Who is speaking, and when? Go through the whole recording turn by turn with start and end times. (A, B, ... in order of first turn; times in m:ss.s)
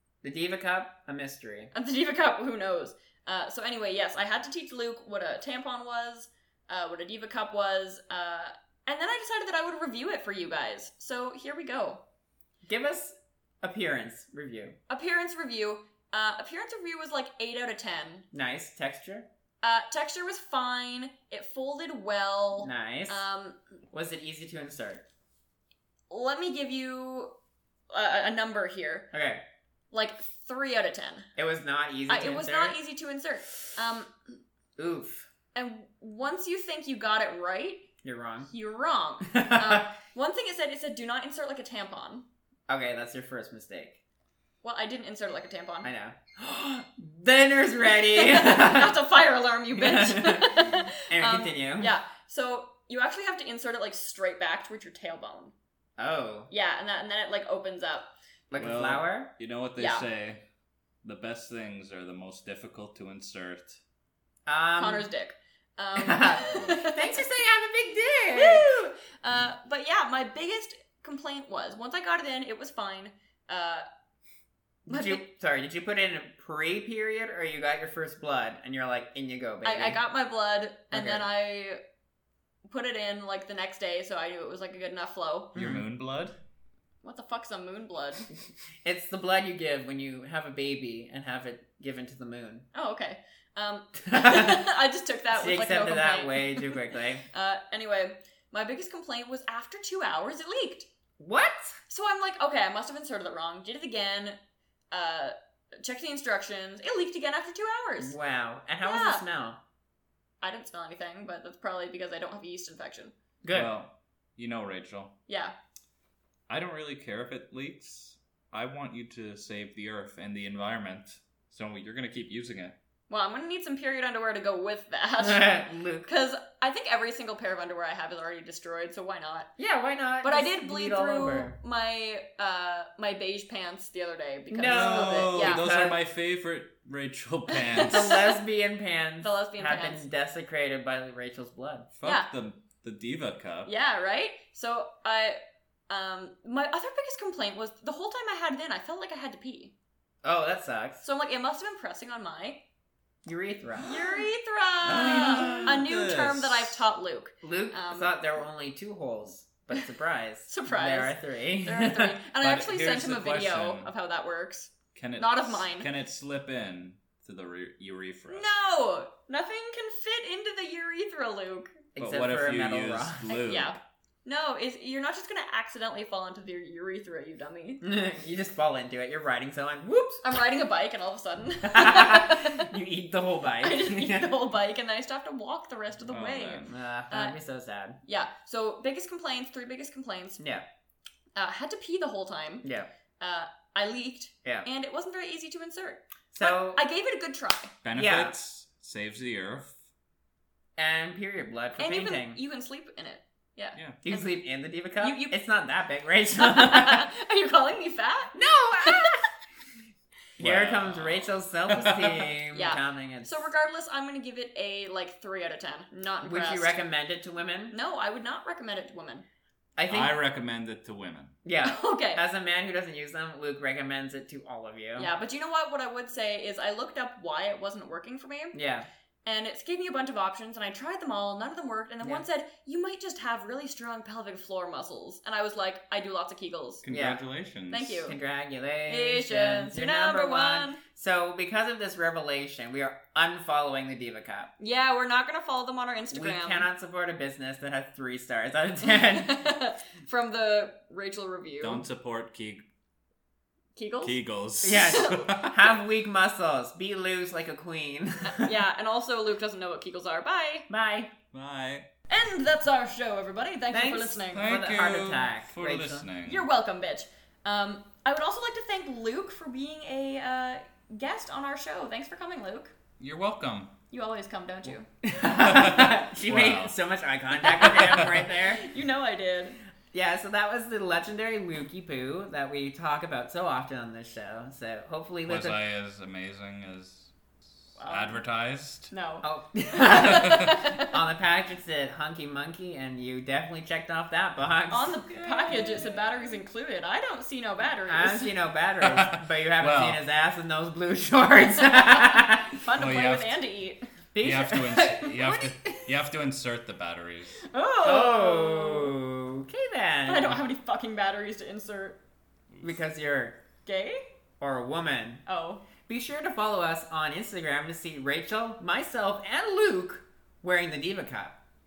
0:00.2-0:01.7 A
0:01.7-0:12.0 B
0:12.6-0:14.8 A
0:14.9-0:18.2 B
0:18.3-0:19.3 A
0:19.6-0:23.6 B
0:22.6-0:23.2 A
0:23.9-0:25.0 A
0:26.1-0:27.3 B
0:27.9-0:29.1 B
0:29.1-0:29.4 A
0:29.9-0:31.3 B
0:31.4-0:32.8 A
0:32.1-0:34.1 B
0:34.8-0:35.3 A
0:35.5-0:37.9 B
0:38.0-0:38.5 A
0:38.5-0:42.2 B
0:39.2-0:39.9 A
0:42.7-0:44.0 A
0:44.6-0:45.9 B
0:45.8-0:49.0 A
0:47.9-0:55.5 B
0:49.7-0:51.9 A
0:56.0-0:56.5 A
0:56.5-0:58.1 B
0:58.5-0:59.3 A
0:58.6-1:00.4 C
0:59.8-1:00.0 B
1:01.0-1:03.8 C
1:04.5-1:05.1 A
1:04.8-1:07.2 B
1:06.0-1:08.7 A
1:08.3-1:13.8 B
1:14.9-1:20.0 A
1:14.9-1:15.2 B
1:19.6-1:21.8 B
1:20.9-1:21.2 A
1:22.7-1:25.5 B
1:25.5-1:25.8 A
1:25.5-1:26.3 C
1:27.0-1:28.3 B
1:28.8-1:32.6 A
1:32.7-1:40.9 B
1:34.0-1:34.6 A
1:35.3-1:37.2 A
1:41.2-1:41.8 A
1:41.9-1:44.4 B
1:44.9-1:48.1 B
1:48.0-1:49.6 A
1:48.8-1:49.2 B
1:50.4-1:53.1 B
1:53.4-1:53.7 A
1:53.5-1:55.1 C
1:55.3-1:55.5 B
1:56.5-2:02.7 C
2:03.1-2:09.5 B
2:05.2-2:06.1 A
2:09.6-2:11.6 A
2:10.2-2:15.7 B
2:14.5-2:16.0 A
2:14.6-2:18.2 C
2:17.7-2:18.2 B
2:17.7-2:21.9 A
2:19.2-2:20.0 B
2:22.0-2:23.7 C
2:23.6-2:29.7 B
2:30.2-2:31.0 A
2:31.0-2:32.6 B
2:33.2-2:34.0 A
2:33.8-2:38.1 B
2:34.8-2:36.8 C
2:34.9-2:35.7 A
2:37.4-2:42.2 A
2:40.5-2:45.9 B
2:42.4-2:43.9 C
2:44.9-2:48.4 C
2:48.3-2:51.8 B
2:52.0-2:53.3 A
2:52.0-2:53.8 C
2:53.3-2:57.8 B
2:57.8-3:00.2 A
3:00.2-3:02.8 B
3:01.6-3:04.3 A
3:03.6-3:07.4 B
3:06.1-3:06.6 C
3:06.6-3:08.0 A
3:08.0-3:10.4 B
3:10.4-3:10.6 A
3:11.3-3:12.6 B
3:12.6-3:12.9 A
3:13.2-3:17.7 B
3:16.3-3:16.8 A
3:17.8-3:19.8 C
3:17.9-3:18.3 A
3:20.8-3:22.4 A
3:21.8-3:24.4 B
3:24.0-3:27.1 A
3:25.0-3:25.3 B
3:26.4-3:29.2 B
3:28.3-3:29.3 A
3:30.4-3:33.4 A
3:30.4-3:32.2 C
3:32.5-3:36.8 B
3:36.2-3:37.7 A
3:37.7-3:39.2 B
3:39.8-3:40.1 A
3:39.9-3:41.3 C
3:41.4-3:45.1 A
3:41.6-3:42.2 B
3:45.0-3:48.5 B
3:48.5-3:48.9 A
3:49.2-3:56.8 B
3:56.8-3:58.1 C
3:56.9-3:57.2 A
3:57.7-3:58.2 B
3:58.0-4:04.5 A
3:58.9-4:00.8 B
4:04.6-4:06.7 B
4:06.1-4:09.4 A
4:08.9-4:11.8 B
4:11.6-4:12.6 C
4:13.8-4:14.1 B
4:14.0-4:15.4 C
4:14.6-4:18.5 A
4:14.7-4:15.5 B
4:18.2-4:20.7 B
4:20.7-4:21.1 A
4:21.3-4:21.9 C
4:22.1-4:24.5 B
4:23.7-4:26.1 A
4:24.3-4:26.5 C
4:26.2-4:32.7 B
4:33.0-4:33.7 C
4:33.9-4:34.9 B
4:35.0-4:38.6 A
4:35.2-4:36.8 C
4:37.5-4:39.6 B
4:39.9-4:45.6 A
4:45.2-4:47.1 C
4:47.8-4:48.9 C
4:47.8-4:48.2 B
4:48.9-4:51.0 B
4:49.2-4:55.8 A
4:50.0-4:50.6 C
4:54.7-4:58.3 B
4:57.9-5:02.5 A
4:58.8-5:00.0 C
5:01.7-5:03.8 B
5:02.8-5:03.4 C
5:04.1-5:05.8 A
5:04.2-5:07.4 C
5:07.5-5:08.9 B
5:07.8-5:10.4 A
5:10.1-5:12.0 B
5:12.6-5:13.4 A
5:13.6-5:14.0 B
5:14.4-5:15.2 A
5:15.2-5:15.6 B
5:15.9-5:21.4 A